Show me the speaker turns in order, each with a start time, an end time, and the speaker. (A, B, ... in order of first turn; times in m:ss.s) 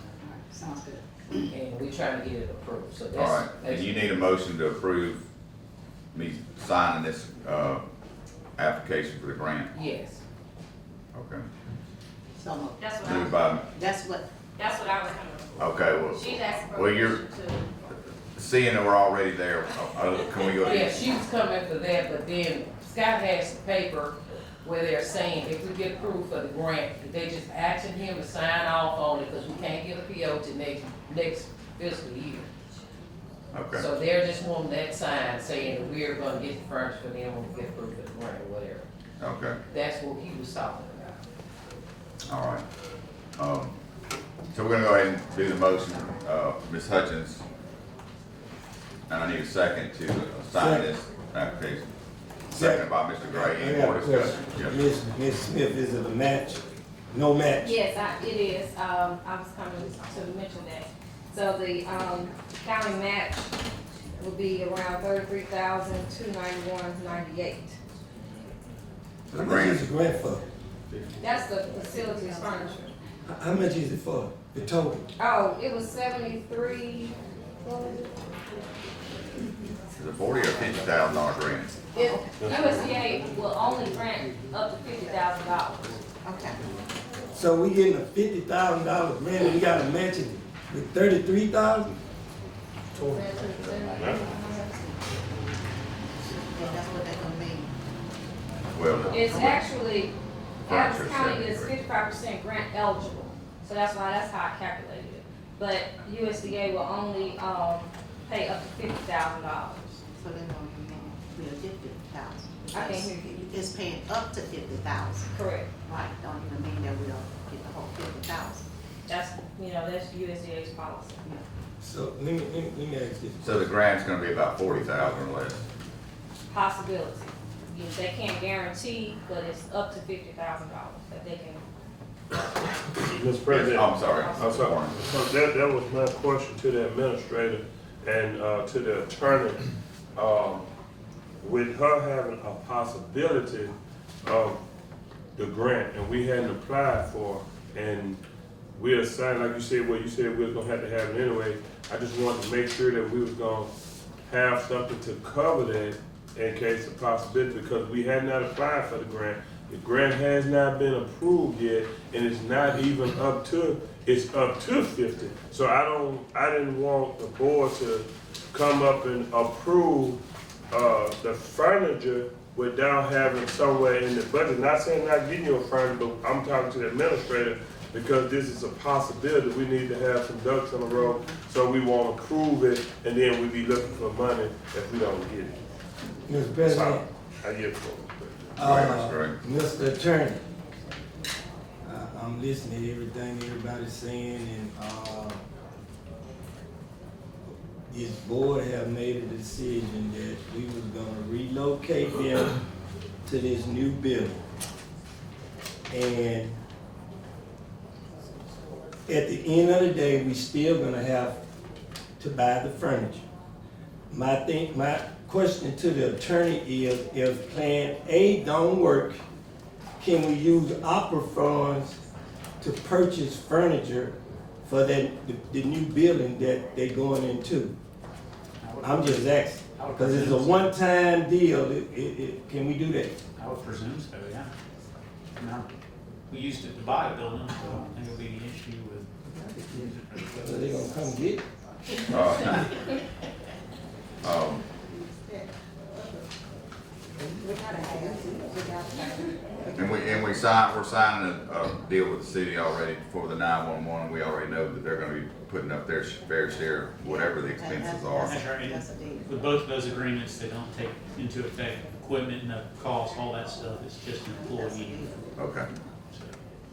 0:00.2-0:01.0 A
0:01.3-0:04.1 B
0:03.2-0:05.2 C
0:06.1-0:07.8 C
0:08.6-0:09.7 C
0:09.7-0:10.2 B
0:11.1-0:11.4 C
0:12.4-0:12.8 A
0:12.8-0:13.6 D
0:13.0-0:13.6 C
0:13.8-0:14.3 A
0:14.6-0:17.6 D
0:15.6-0:17.2 C
0:18.4-0:21.1 C
0:20.6-0:32.5 B
0:33.5-0:33.9 C
0:33.7-0:38.9 B
0:39.2-0:39.6 C
0:39.7-0:41.2 B
0:42.3-0:42.6 C
0:43.4-0:43.8 C
0:44.5-0:47.4 C
0:49.1-0:51.9 C
0:50.6-0:50.9 E
0:52.5-0:54.8 C
0:52.5-0:57.8 E
0:57.6-1:03.5 D
1:04.2-1:07.8 D
1:09.3-1:09.9 C
1:09.3-1:10.4 E
1:11.2-1:12.9 D
1:13.3-1:15.1 E
1:15.2-1:18.1 D
1:20.0-1:21.8 C
1:21.9-1:26.0 D
1:22.0-1:22.8 A
1:22.4-1:22.7 F
1:26.2-1:26.6 A
1:27.3-1:32.0 E
1:33.0-1:34.8 D
1:33.9-1:34.2 F
1:36.2-1:37.7 A
1:38.7-1:39.7 C
1:39.1-1:40.1 D
1:40.7-1:41.8 C
1:40.7-1:50.0 D
1:50.2-1:55.3 A
1:52.7-1:53.5 D
1:55.3-1:55.7 D
1:55.9-1:58.6 A
1:59.1-2:01.2 D
2:01.8-2:03.7 E
2:03.4-2:05.6 C
2:06.5-2:11.6 D
2:13.0-2:20.7 F
2:13.5-2:15.0 C
2:14.1-2:14.5 D
2:21.4-2:24.6 F
2:25.4-2:28.2 F
2:28.8-2:33.7 F
2:34.3-2:50.2 F
2:50.7-3:05.6 F
3:06.3-3:07.0 E
3:06.6-3:08.6 F
3:08.6-3:10.4 E
3:08.6-3:09.4 C
3:11.8-3:15.4 E
3:17.9-3:22.6 E
3:23.2-3:24.4 E
3:25.9-3:26.6 E
3:29.1-3:31.4 E
3:32.2-3:33.2 E
3:34.1-3:39.2 E
3:40.0-3:42.0 E
3:42.6-3:47.8 E
3:48.6-3:50.8 G
3:48.8-3:53.2 E
3:53.4-3:54.5 G
3:55.4-3:55.7 G
3:56.3-4:00.8 G
3:59.3-4:01.4 E
4:02.1-4:02.7 C
4:04.2-4:04.6 C
4:04.9-4:05.5 A
4:07.4-4:09.2 A
4:09.8-4:18.4 C
4:17.4-4:19.3 A
4:18.2-4:25.3 G
4:24.3-4:25.3 A
4:25.4-4:25.7 C
4:26.1-4:26.4 G